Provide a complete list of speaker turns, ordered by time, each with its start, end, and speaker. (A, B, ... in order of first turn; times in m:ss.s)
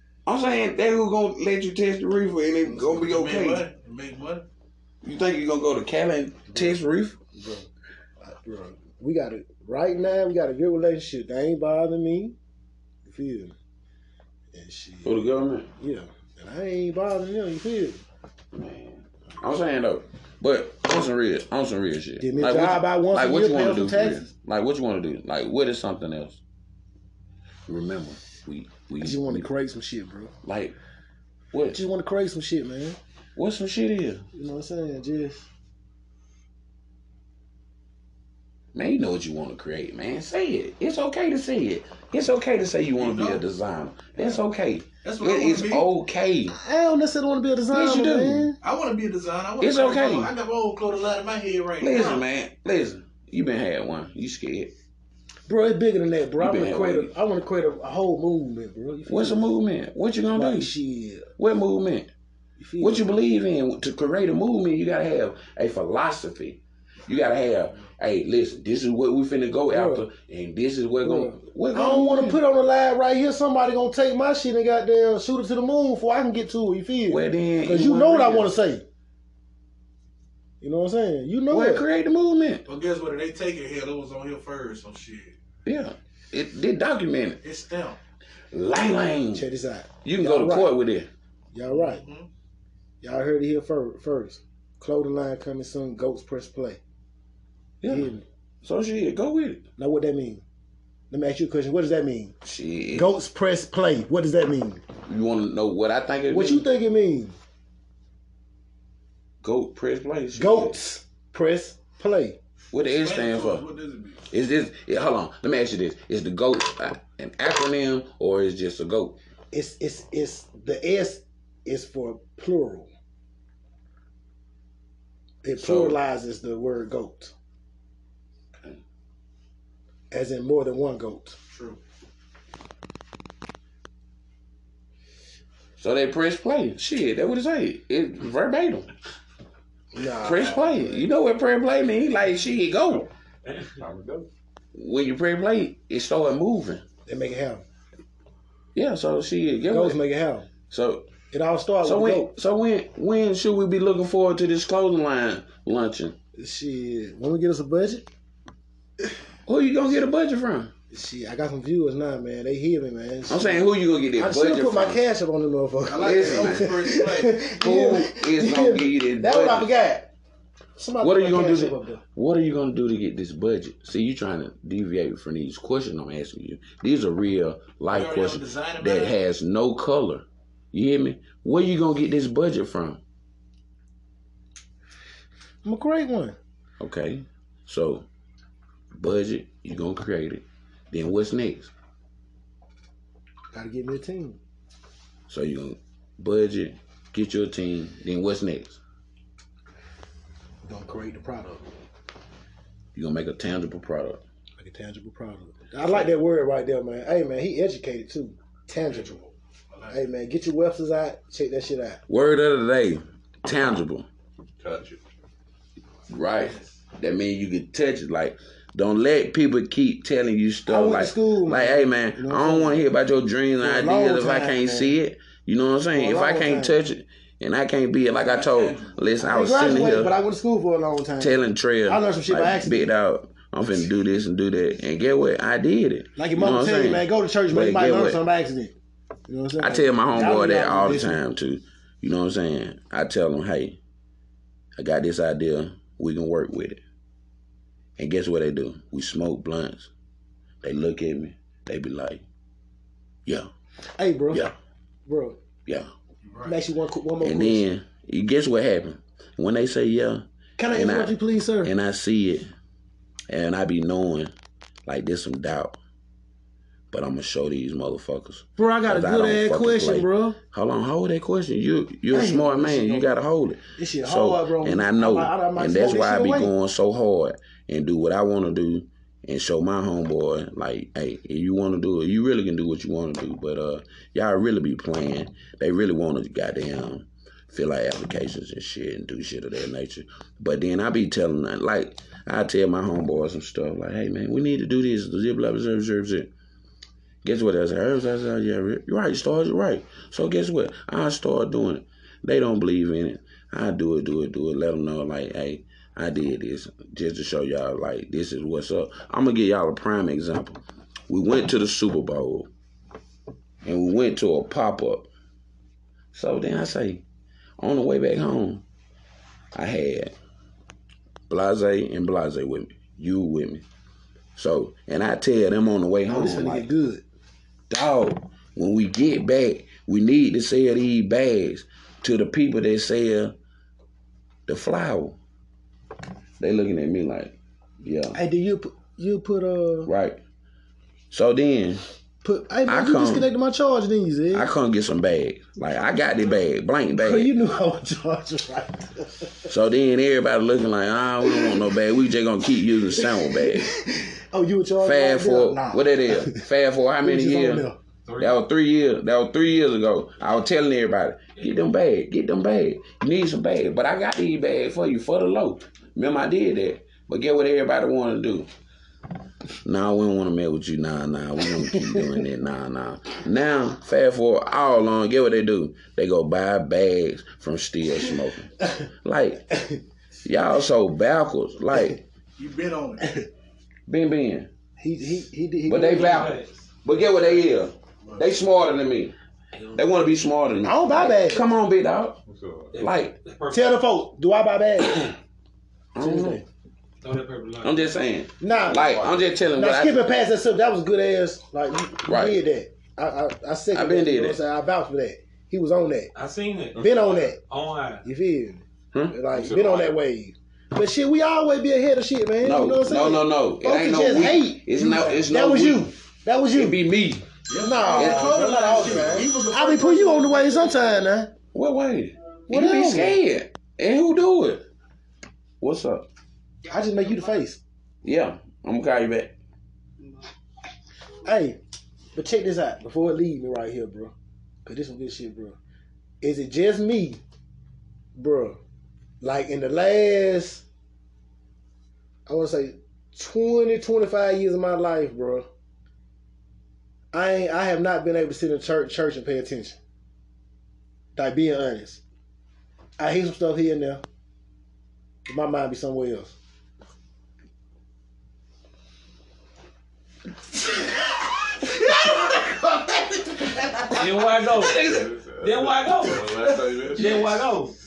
0:00.2-0:03.6 A
0:02.7-0:04.4 B
0:05.0-0:07.2 A
0:06.5-0:06.8 C
0:07.3-0:07.7 C
0:08.2-0:12.4 C
0:13.0-0:13.5 C
0:14.5-0:15.2 C
0:15.0-0:15.7 A
0:15.8-0:18.0 C
0:18.5-0:26.4 A
0:22.2-0:24.3 C
0:27.7-0:29.5 A
0:29.0-0:30.3 C
0:30.4-0:30.7 A
0:31.5-0:31.8 A
0:31.7-0:33.0 C
0:33.4-0:34.2 A
0:34.3-0:35.4 C
0:38.7-0:46.6 A
0:43.0-0:43.4 B
0:45.0-0:45.9 B
0:46.6-0:48.6 C
0:47.7-0:48.5 A
0:48.6-0:52.2 B
0:49.6-0:50.3 A
0:51.8-0:54.7 A
0:55.5-0:59.5 C
0:56.4-0:57.1 A
0:59.1-1:00.7 A
1:00.3-1:01.3 C
1:01.4-1:02.1 A
1:02.6-1:03.2 C
1:02.8-1:12.4 A
1:09.7-1:10.1 C
1:11.0-1:18.8 C
1:17.1-1:18.5 A
1:20.6-1:21.8 C
1:21.5-1:22.6 A
1:22.6-1:25.3 B
1:25.6-1:27.4 A
1:27.4-1:28.0 B
1:28.5-1:29.4 A
1:29.3-1:30.7 C
1:30.0-1:31.1 A
1:31.5-1:32.0 C
1:31.7-1:32.3 B
1:33.0-1:36.8 C
1:37.8-1:38.1 A
1:37.8-1:38.2 C
1:38.6-1:39.6 A
1:39.8-1:40.4 C
1:41.1-1:42.3 C
1:42.4-1:43.1 A
1:42.9-1:44.8 C
1:45.0-1:46.7 A
1:46.3-1:47.3 C
1:49.4-1:50.8 A
1:50.3-1:52.4 C
1:52.7-1:53.6 A
1:53.0-1:54.3 B
1:54.3-1:59.2 A
1:59.5-2:02.9 C
2:05.4-2:07.3 C
2:05.6-2:06.0 A
2:10.1-2:11.4 C
2:11.5-2:11.8 B
2:15.8-2:18.9 A
2:19.9-2:21.1 C
2:20.2-2:23.1 A
2:23.8-2:24.3 D
2:24.7-2:26.8 A
2:27.0-2:27.6 C
2:28.7-2:30.0 A
2:29.7-2:30.5 C
2:30.7-2:31.1 A
2:31.3-2:32.3 C
2:31.8-2:36.1 A
2:36.4-2:38.1 C
2:39.5-2:40.7 A
2:40.9-2:43.6 C
2:43.3-2:45.0 A
2:44.1-2:50.1 C
2:45.9-2:47.4 B
2:46.0-2:46.9 A
2:47.5-2:49.7 A
2:50.8-2:52.0 C
2:51.0-3:03.0 A
2:57.9-2:59.2 B
3:05.6-3:06.4 C
3:06.8-3:08.0 A
3:09.0-3:11.7 A
3:13.5-3:14.4 C
3:15.3-3:18.8 A
3:20.6-3:21.6 C
3:22.9-3:24.2 A
3:24.6-3:29.2 C
3:28.8-3:30.0 B
3:29.9-3:32.0 C
3:32.1-3:34.1 A
3:34.6-3:35.0 D
3:36.1-3:50.1 A
3:40.7-3:42.8 C
3:43.6-3:45.0 C
3:45.9-3:46.8 C
3:48.1-3:49.5 B
3:49.2-3:52.9 C
3:51.2-3:58.2 A
3:56.2-3:58.7 C
3:59.3-4:01.2 C
3:59.6-4:03.8 A
4:04.8-4:06.8 A
4:08.0-4:09.9 A
4:10.6-4:12.2 A
4:14.0-4:14.5 C
4:15.0-4:15.4 C
4:16.2-4:16.6 B
4:16.4-4:17.6 C
4:17.2-4:22.5 A
4:20.6-4:21.7 C
4:23.3-4:24.3 A
4:24.9-4:25.8 A
4:26.9-4:56.3 A
4:28.6-4:30.4 C
4:32.1-4:33.1 C
4:33.8-4:36.5 C
4:57.2-5:12.5 A
5:13.6-5:15.1 A
5:16.1-5:17.0 A
5:17.6-5:18.6 A
5:19.5-5:20.1 A
5:21.3-5:23.6 A
5:24.4-5:26.7 A
5:26.1-5:27.0 C
5:27.7-5:33.3 A
5:34.5-5:35.2 A
5:36.4-5:38.2 A
5:38.1-5:39.9 C
5:39.8-5:40.2 A
5:41.1-5:41.8 A
5:42.2-5:44.5 C
5:42.6-5:43.3 A
5:44.3-5:47.3 A
5:47.0-5:49.5 C
5:49.5-5:53.7 A
5:51.2-5:51.6 C
5:52.9-5:56.5 C
5:54.8-5:57.6 A
5:57.0-5:57.8 C
5:58.2-6:08.5 A
6:09.6-6:19.5 A
6:11.7-6:12.1 C
6:19.5-6:19.8 C
6:20.2-6:22.0 A
6:22.4-6:23.2 B
6:23.9-6:24.5 A
6:24.8-6:26.4 C
6:25.6-6:29.1 A
6:25.8-6:26.5 E
6:29.7-6:32.2 A
6:30.6-6:31.4 C
6:32.3-6:32.8 D
6:32.7-6:33.8 E
6:32.8-6:33.1 A
6:33.5-6:35.1 C
6:35.9-6:36.4 A
6:36.0-6:36.4 C
6:37.0-6:37.9 E
6:37.6-6:40.0 A
6:38.4-6:46.1 C
6:38.8-6:39.2 D
6:42.0-6:42.4 A
6:43.7-6:44.4 A
6:46.1-6:48.0 E
6:46.7-6:47.4 C
6:48.0-6:56.8 C
6:49.3-6:50.0 D
6:52.4-6:55.9 A
6:56.5-6:57.2 A
6:57.5-7:00.7 B
6:57.6-7:01.3 C
6:57.9-6:59.1 A
7:01.5-7:04.6 A
7:02.5-7:03.2 C
7:05.6-7:06.0 A
7:06.7-7:07.6 C
7:08.0-7:09.3 A
7:11.2-7:11.6 C
7:12.1-7:14.1 C
7:14.6-7:15.6 C
7:16.2-7:17.2 C
7:18.2-7:18.6 C
7:19.2-7:20.6 C
7:22.3-7:25.5 C
7:27.1-7:29.8 C
7:31.1-7:32.0 C
7:33.0-7:34.0 C
7:35.2-7:36.3 C
7:41.8-7:44.0 B
7:43.8-7:47.7 E
7:44.6-7:47.4 D